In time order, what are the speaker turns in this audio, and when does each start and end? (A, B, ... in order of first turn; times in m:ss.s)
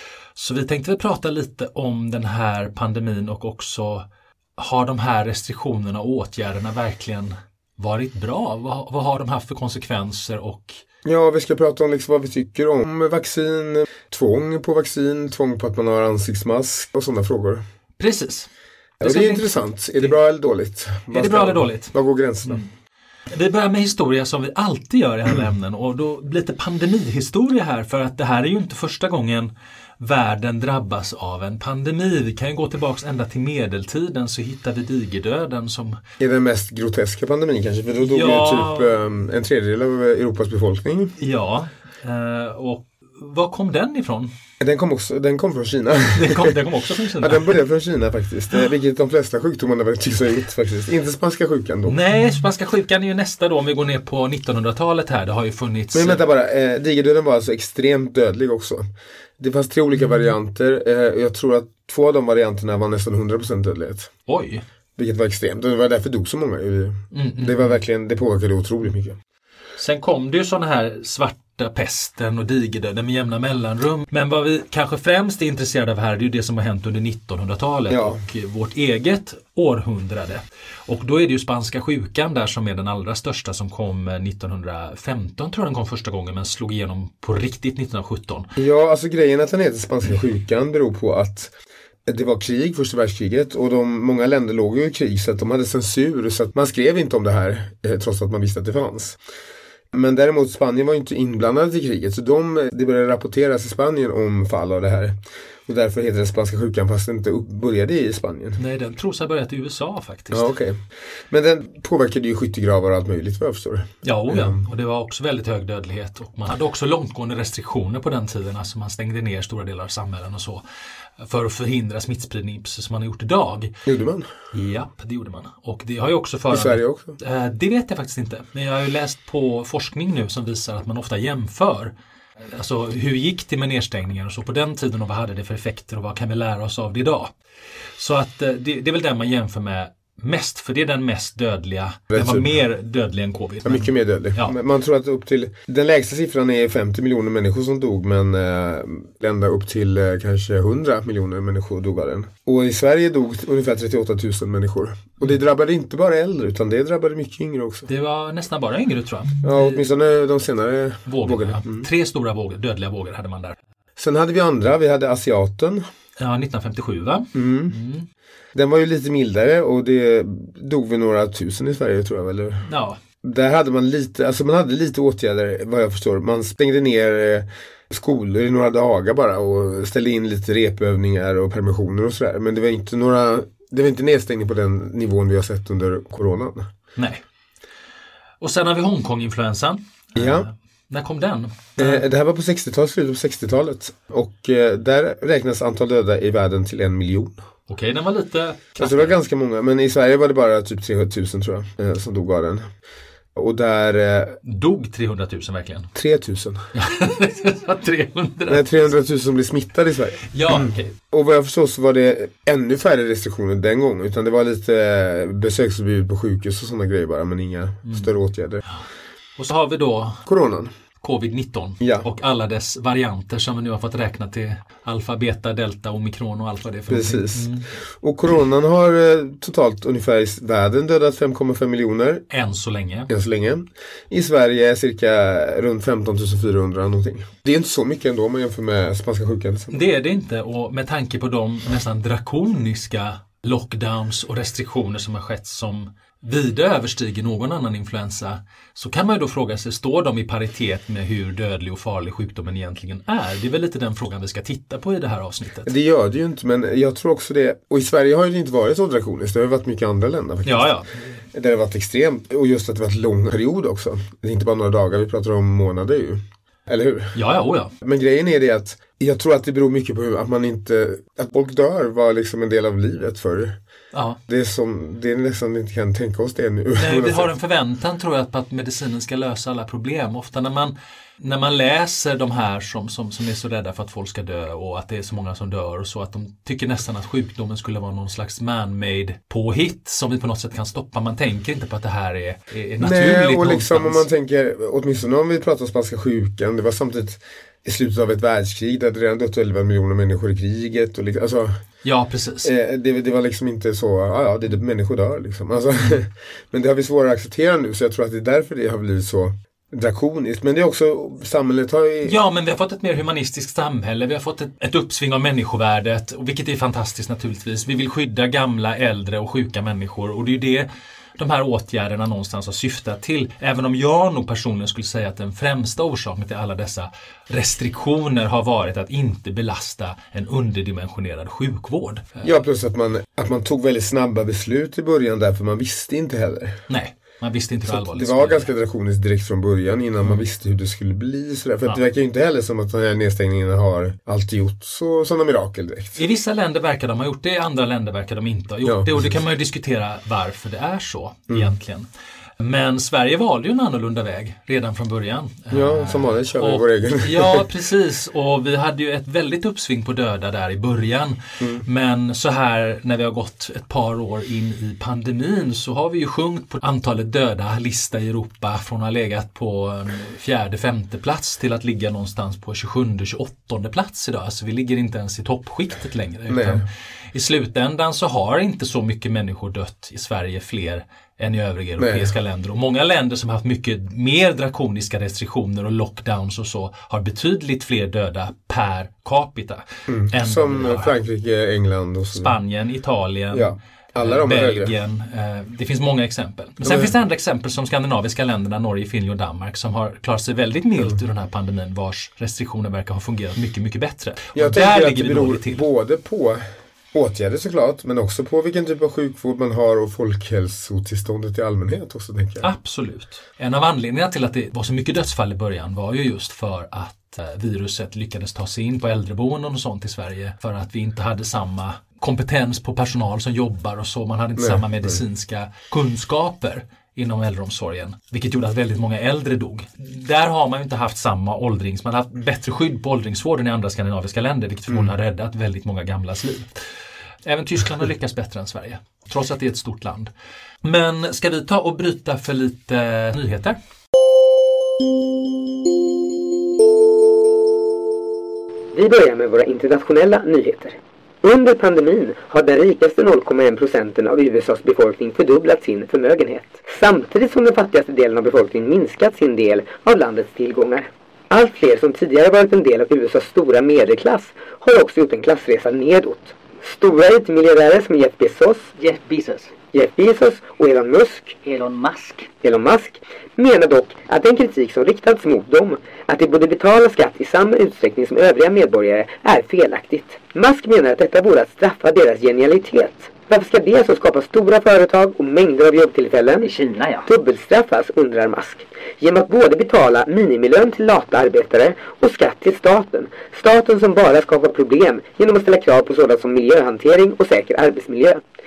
0:00.3-0:10.8 A
0:11.0-0:17.6 B
0:18.0-0:18.5 A
0:19.0-0:20.2 A
0:19.0-0:22.6 B
0:21.1-0:21.9 A
0:23.3-0:36.0 A
0:36.2-0:41.1 B
0:38.0-0:38.9 A
0:41.2-0:44.3 A
0:44.6-0:46.5 B
0:46.1-0:47.5 A
0:47.2-0:52.0 B
0:51.8-0:56.2 A
0:55.9-0:58.8 B
0:59.4-1:04.1 B
1:00.0-1:00.3 A
1:04.3-1:04.6 A
1:05.0-1:09.2 B
1:07.1-1:07.8 A
1:09.8-1:28.5 A
1:17.9-1:18.2 B
1:28.6-1:31.5 B
1:32.0-1:39.2 B
1:39.9-1:48.6 B
1:48.6-1:50.5 A
1:50.3-1:54.6 B
1:54.0-2:00.6 A
2:01.2-2:03.7 A
2:03.8-2:04.3 B
2:04.5-2:11.9 A
2:06.5-2:07.2 B
2:12.5-2:17.3 A
2:18.0-2:24.5 A
2:22.1-2:22.5 B
2:23.6-2:37.9 B
2:37.9-2:39.8 A
2:39.4-2:41.9 B
2:41.0-2:43.6 A
2:44.0-2:45.8 B
2:46.2-2:48.1 A
2:47.3-2:47.7 B
2:48.5-2:52.7 B
2:52.6-2:53.0 A
2:53.2-3:06.7 B
3:07.0-3:07.2 A
3:08.4-3:12.0 A
3:10.2-3:10.5 B
3:11.8-3:17.4 B
3:17.7-3:19.2 A
3:18.8-3:22.7 B
3:23.3-3:24.4 B
3:24.4-3:25.9 A
3:25.9-3:26.7 B
3:26.7-3:28.7 A
3:28.5-3:38.6 B
3:30.3-3:31.0 A
3:39.4-3:40.2 A
3:40.2-3:40.7 B
3:41.0-3:47.7 A
3:41.8-3:42.0 B
3:46.9-3:52.2 B
3:52.3-3:53.1 A
3:53.1-3:59.8 B
3:59.7-4:15.7 A
4:15.6-4:20.7 B
4:20.4-4:21.0 A
4:21.3-4:27.2 B
4:27.1-4:27.7 A
4:27.8-4:33.6 B
4:33.9-4:34.2 A
4:34.3-4:37.3 B
4:36.8-4:54.0 A
4:52.8-5:01.6 B
5:01.8-5:02.5 A
5:02.4-5:12.2 B
5:12.0-5:32.3 A
5:32.2-5:36.6 B
5:36.7-5:38.5 A
5:37.6-5:46.0 B
5:46.0-5:51.8 A
5:48.6-5:49.1 B
5:52.4-6:30.9 A
5:55.5-5:57.4 B
6:16.3-6:16.6 B
6:21.8-6:22.1 B
6:29.9-6:32.3 B
6:32.1-6:45.6 A
6:33.3-6:34.7 B
6:36.6-6:36.9 B
6:44.3-6:52.5 B
6:52.4-7:16.6 A
7:04.4-7:05.0 B
7:17.2-7:20.1 A
7:20.6-7:23.6 A
7:28.7-7:48.7 C
7:48.8-7:49.5 D
7:49.7-7:51.4 C
7:51.4-7:52.3 D
7:52.4-8:06.5 C
8:06.4-8:07.1 D
8:07.0-8:18.2 C